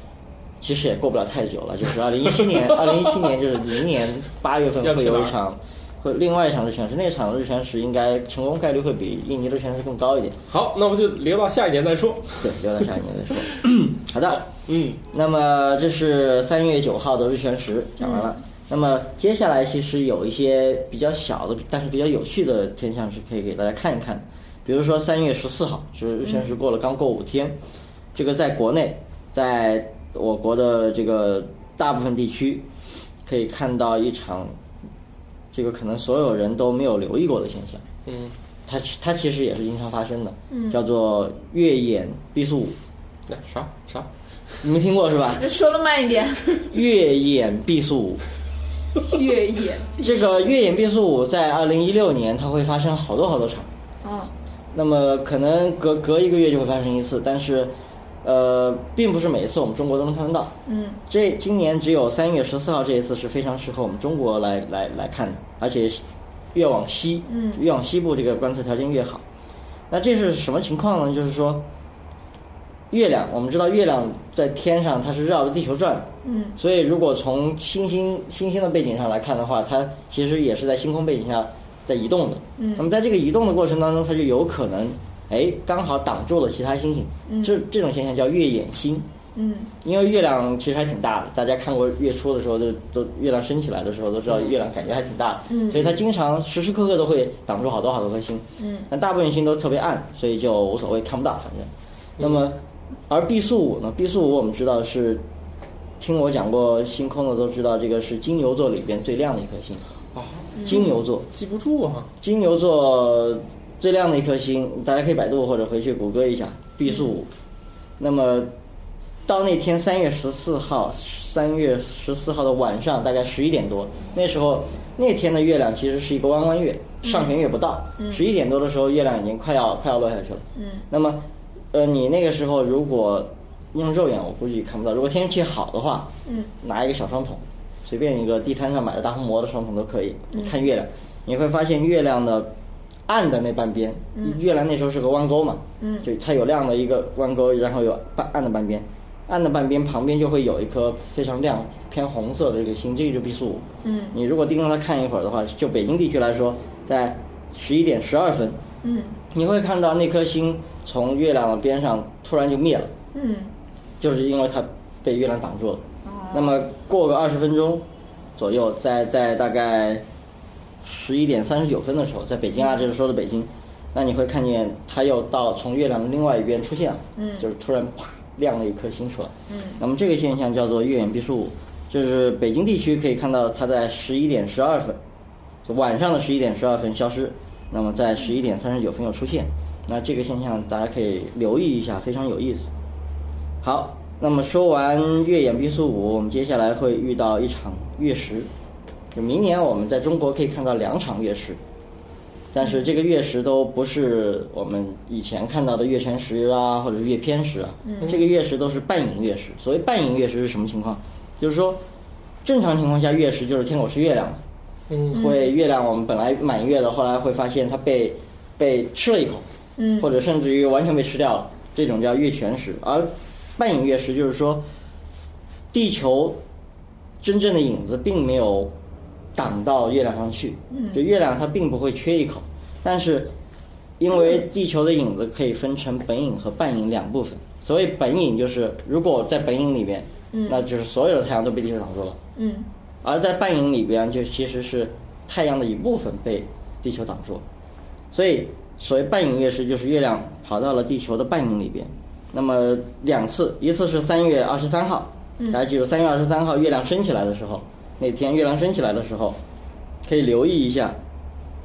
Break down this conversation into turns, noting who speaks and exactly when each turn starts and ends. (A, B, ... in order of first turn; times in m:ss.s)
0:00.6-0:10.4 A
0:02.5-0:03.2 B
0:04.8-0:05.4 B
0:10.5-0:12.8 B
0:12.4-0:14.5 A
0:14.5-0:15.0 B
0:15.1-0:27.6 A
0:18.0-0:18.3 C
0:26.2-0:26.5 C
0:28.2-0:32.7 A
0:33.3-0:34.5 A
0:35.5-0:37.8 A
0:38.1-0:38.4 B
0:38.7-0:42.8 A
0:40.5-0:40.8 C
0:43.3-0:44.1 B
0:44.6-0:45.5 A
0:45.4-0:46.6 C
0:46.7-0:48.2 A
0:49.0-0:50.0 C
0:50.0-0:53.7 A
0:54.0-0:54.3 C
0:54.7-1:00.5 A
1:00.7-1:01.0 C
1:01.1-1:06.0 A
1:06.5-1:09.2 A
1:07.3-1:07.6 C
1:09.9-1:11.7 A
1:12.9-1:29.1 A
1:16.2-1:16.6 C
1:22.6-1:22.8 C
1:27.3-1:27.6 C
1:29.4-1:29.7 C
1:29.8-1:45.2 A
1:35.5-1:35.9 C
1:38.6-1:38.9 C
1:46.0-1:49.8 A
1:50.1-1:50.7 B
1:50.6-1:50.9 C
1:50.6-1:51.3 A
1:51.3-1:52.1 B
1:52.2-1:57.3 A
1:58.0-1:58.5 A
1:59.3-2:22.5 A
2:07.0-2:07.4 C
2:10.6-2:10.8 C
2:23.1-2:38.6 A
2:25.8-2:26.1 C
2:33.8-2:34.1 C
2:38.8-2:39.2 C
2:39.3-2:42.9 A
2:43.1-2:43.5 C
2:44.0-2:47.8 A
2:46.0-2:46.6 C
2:48.4-2:50.0 A
2:50.8-3:05.0 A
2:52.6-2:52.8 C
2:57.2-2:57.4 C
2:59.5-2:59.8 C
3:05.7-3:12.7 A
3:13.6-3:18.5 A
3:19.1-3:21.6 A
3:22.5-3:31.8 A
3:27.9-3:28.2 C
3:32.4-3:34.4 A
3:34.9-3:35.2 B
3:35.1-3:39.4 A
3:35.1-3:35.5 C
3:39.8-3:40.1 C
3:40.0-3:44.6 A
3:45.7-3:46.4 A
3:47.2-3:48.7 A
3:49.4-3:53.3 A
3:50.7-3:51.0 C
3:54.0-4:02.2 A
4:00.3-4:00.6 C
4:02.4-4:02.7 C
4:03.0-4:07.4 A
4:08.1-4:19.4 A
4:20.0-4:21.0 A